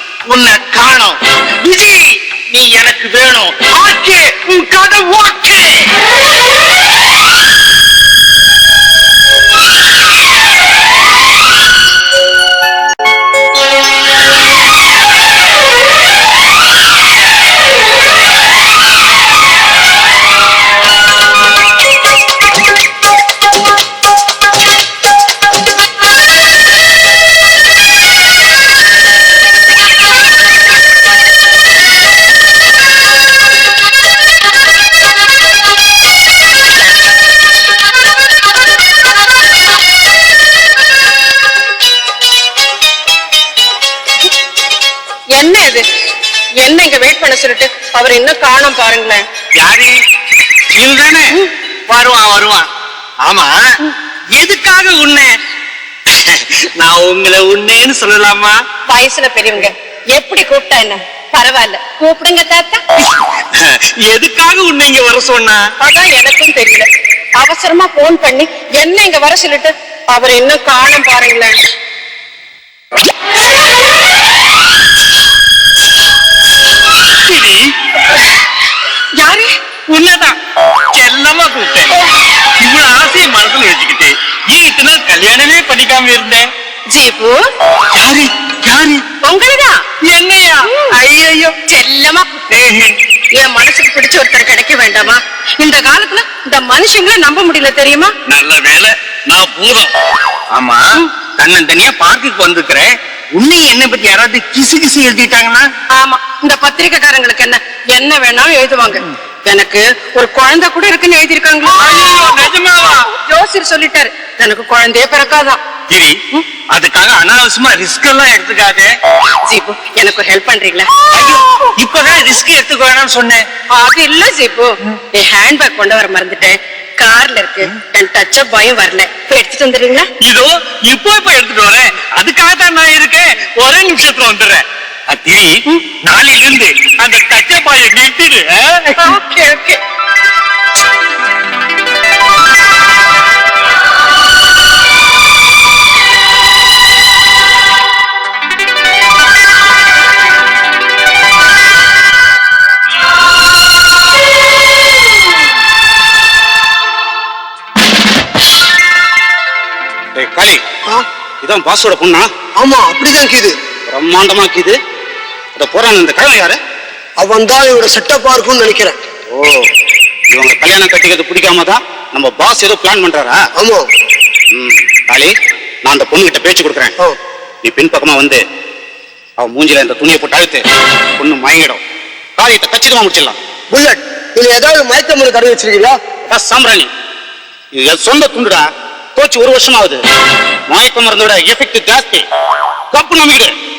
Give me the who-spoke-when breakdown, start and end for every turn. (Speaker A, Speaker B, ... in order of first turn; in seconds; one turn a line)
Speaker A: 0.3-5.9
Speaker B: 45.4-45.8
Speaker B: 46.6-49.2
Speaker C: 49.6-50.0
Speaker C: 50.8-51.3
Speaker C: 51.9-52.7
Speaker C: 53.2-53.6
Speaker C: 54.4-55.4
Speaker C: 56.4-58.6
Speaker B: 58.9-62.8
Speaker C: 63.5-65.7
Speaker B: 65.8-71.5
Speaker C: 77.2-77.6
Speaker B: 79.2-79.5
Speaker C: 79.9-80.3
Speaker C: 80.9-81.9
Speaker C: 82.6-86.5
Speaker B: 86.9-87.4
Speaker C: 87.9-89.0
Speaker B: 89.2-89.8
Speaker C: 90.0-91.5
Speaker B: 90.6-91.0
Speaker B: 91.7-92.5
Speaker C: 92.5-92.9
Speaker B: 93.3-98.1
Speaker C: 98.3-99.9
Speaker C: 100.5-100.8
Speaker C: 101.4-105.7
Speaker B: 105.9-115.6
Speaker C: 111.8-113.0
Speaker C: 115.9-116.2
Speaker C: 116.7-118.9
Speaker B: 119.4-120.9
Speaker C: 121.1-123.5
Speaker B: 123.7-130.1
Speaker C: 130.2-139.1
Speaker B: 139.0-139.8
Speaker D: 160.2-160.6
Speaker D: 161.4-162.3
Speaker E: 162.6-163.6
Speaker D: 163.9-164.8
Speaker D: 165.6-166.6
Speaker E: 167.2-169.0
Speaker D: 169.3-169.6
Speaker D: 170.3-173.4
Speaker E: 173.6-173.8
Speaker D: 174.6-175.3
Speaker D: 175.8-176.9
Speaker D: 177.6-178.4
Speaker D: 179.4-180.6
Speaker D: 181.2-181.8
Speaker D: 182.4-183.3
Speaker E: 183.7-186.0
Speaker D: 186.3-186.9
Speaker D: 187.7-190.0
Speaker D: 190.7-192.2
Speaker D: 192.9-193.5